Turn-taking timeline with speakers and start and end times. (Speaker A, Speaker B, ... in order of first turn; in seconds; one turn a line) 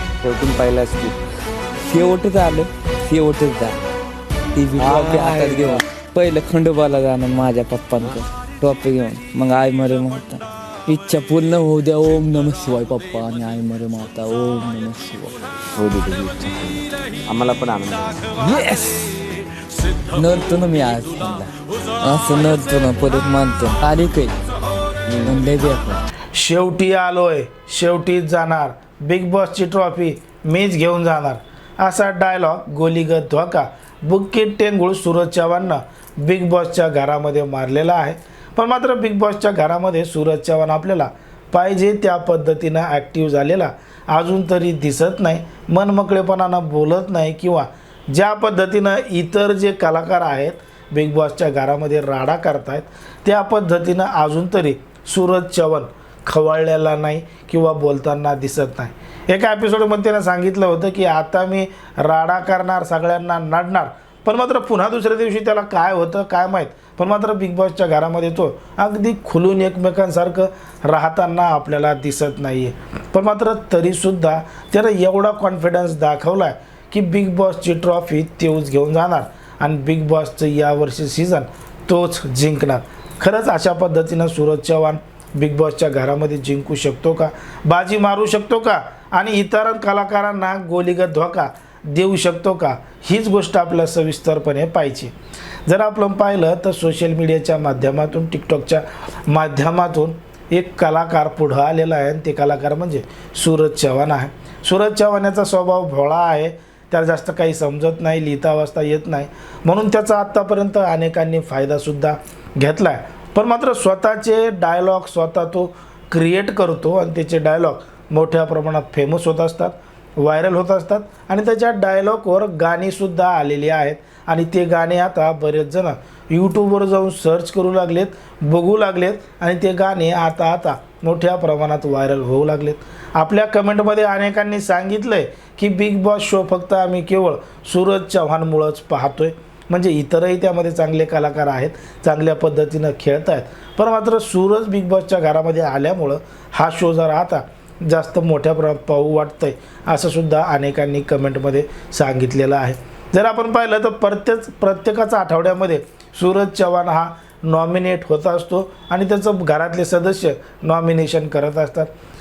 Speaker A: 0.2-1.1
Speaker B: 1.8-3.8
Speaker B: 4.5-15.4
Speaker A: 4.8-5.8
Speaker A: 15.8-18.3
Speaker B: 18.3-19.2
Speaker B: 20.1-24.4
Speaker A: 25.1-25.4
Speaker B: 25.2-26.0
Speaker C: 26.3-95.1
Speaker C: 95.7-161.9